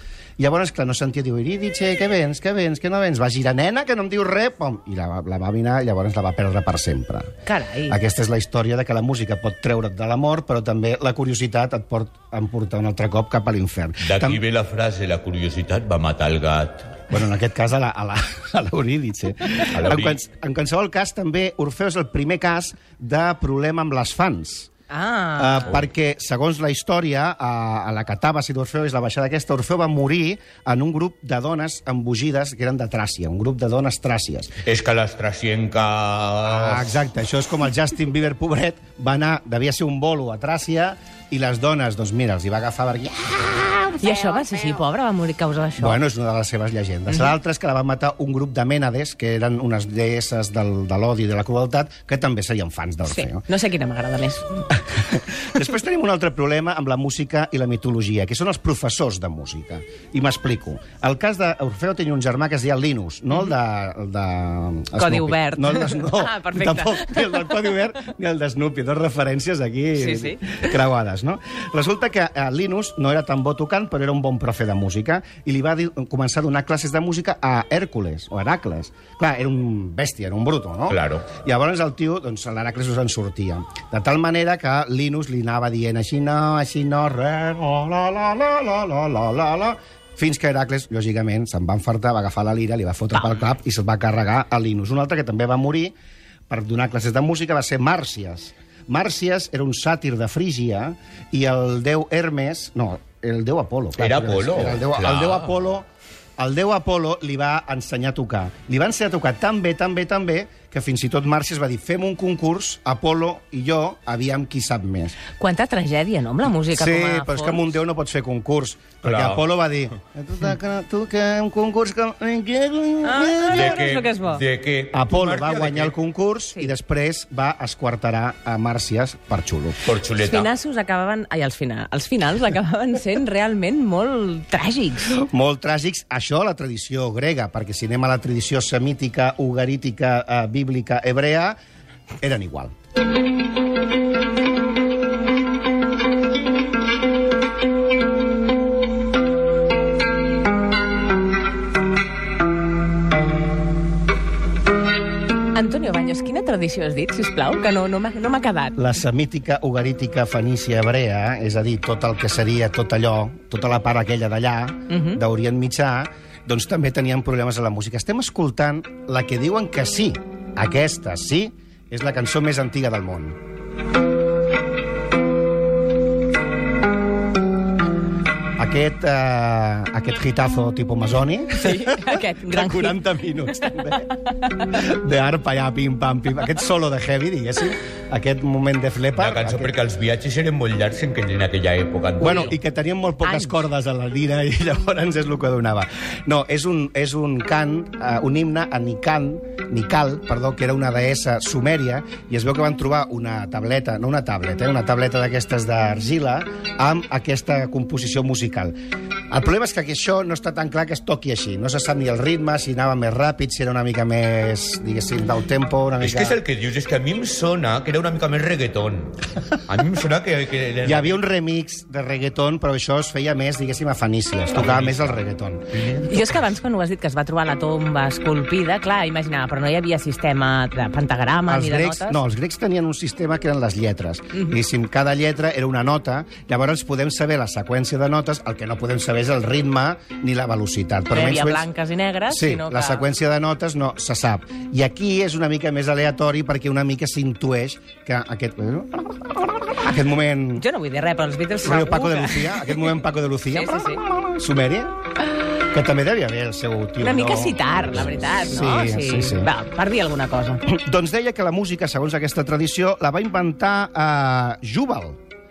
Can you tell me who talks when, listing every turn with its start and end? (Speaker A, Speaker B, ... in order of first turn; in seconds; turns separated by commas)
Speaker A: 0.4-7.3, Speaker B: 7.5-8.0, Speaker A: 7.9-14.4, Speaker C: 14.0-17.0, Speaker A: 17.1-24.7, Speaker C: 19.7-20.2, Speaker B: 24.9-25.8, Speaker A: 25.4-34.5, Speaker C: 34.6-37.0, Speaker A: 36.5-44.4, Speaker B: 44.0-46.0, Speaker A: 45.8-53.5, Speaker B: 47.1-47.4, Speaker B: 53.1-54.5, Speaker A: 54.8-96.0, Speaker B: 65.0-67.6, Speaker B: 70.0-70.7, Speaker C: 80.9-81.3, Speaker B: 93.2-93.5, Speaker A: 96.5-105.9, Speaker C: 104.0-105.5, Speaker A: 106.4-115.2, Speaker B: 115.4-117.7, Speaker A: 116.6-123.8, Speaker C: 119.0-119.4, Speaker B: 123.0-124.4, Speaker C: 123.5-125.9, Speaker A: 124.9-129.8, Speaker C: 129.9-130.5, Speaker B: 130.2-135.2, Speaker A: 135.1-141.6, Speaker A: 142.2-142.7, Speaker B: 155.5-158.8, Speaker A: 158.8-173.4, Speaker B: 164.9-165.2, Speaker A: 178.6-189.8, Speaker B: 181.5-183.0, Speaker B: 183.6-183.9, Speaker C: 189.2-192.5, Speaker A: 192.2-208.8, Speaker B: 193.2-193.6, Speaker A: 209.3-216.4, Speaker C: 216.0-221.2, Speaker A: 220.8-225.8, Speaker C: 224.6-225.2, Speaker C: 225.8-226.4, Speaker B: 226.1-232.2, Speaker A: 231.5-241.7, Speaker B: 241.1-243.1, Speaker A: 242.3-250.7, Speaker B: 250.6-252.9, Speaker A: 251.6-254.9, Speaker B: 253.5-254.0, Speaker A: 255.7-259.5, Speaker B: 257.0-260.6, Speaker A: 260.7-265.2